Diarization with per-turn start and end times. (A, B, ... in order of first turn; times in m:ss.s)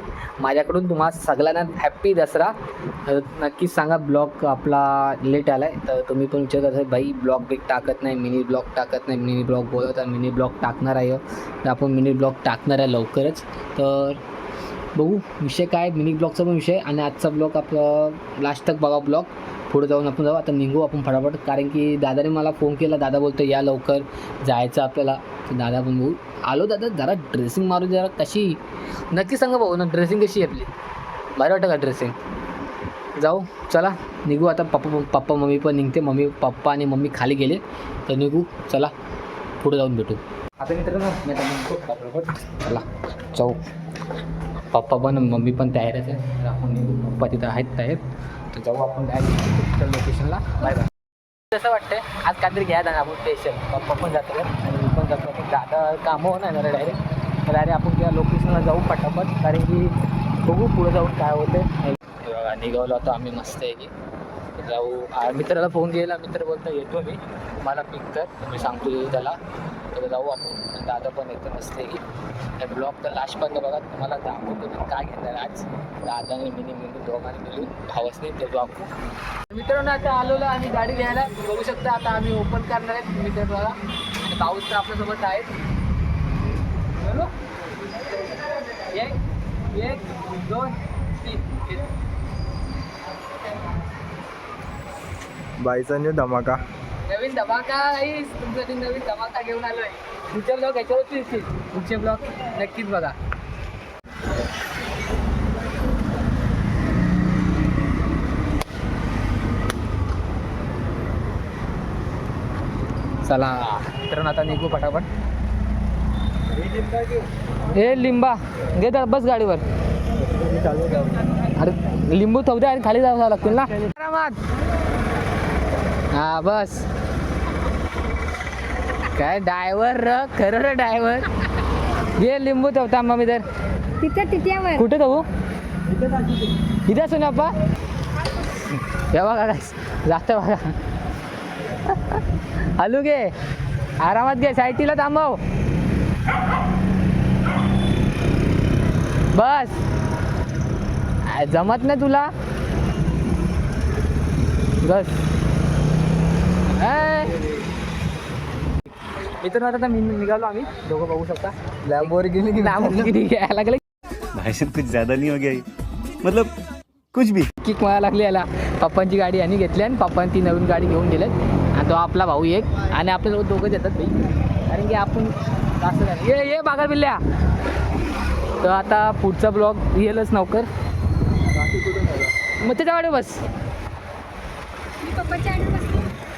0:00.4-0:14.2 A
0:15.0-0:28.6 A
0:29.1-0:30.7 A
0:31.4-0:32.2 A
0:33.2-0:38.9 A
0:39.6-0:43.6 A
0:44.7-0:50.9 A
0:51.5-1:03.9 A
1:04.5-1:09.4 A
1:09.9-1:12.0 A
1:12.6-1:18.9 A
1:19.5-1:25.5 A
1:27.0-1:27.3 A
1:28.7-1:29.2 A
1:29.7-1:31.9 A
1:35.6-1:36.6 B
1:37.1-1:43.2 A
1:53.2-1:55.1 A
1:57.7-1:59.6 A
2:00.4-2:01.2 B
2:01.6-2:04.4 A
2:06.1-2:06.9 A
2:09.0-2:11.3 A
2:12.2-2:13.5 A
2:14.0-2:14.8 C
2:14.7-2:15.3 A
2:16.9-2:17.5 A
2:18.7-2:20.8 A
2:21.8-2:23.3 A
2:24.0-2:25.4 A
2:29.3-2:29.8 A
2:31.3-2:32.3 A
2:34.8-2:35.2 A
2:36.7-2:37.4 A
2:39.4-2:43.8 A
2:42.0-2:42.8 B
2:44.4-2:45.6 D
2:46.2-2:46.5 D
2:47.1-2:47.5 D
2:47.6-2:57.2 A
2:58.6-3:00.7 A
3:01.6-3:02.2 B
3:02.2-3:03.4 A
3:05.0-3:06.1 C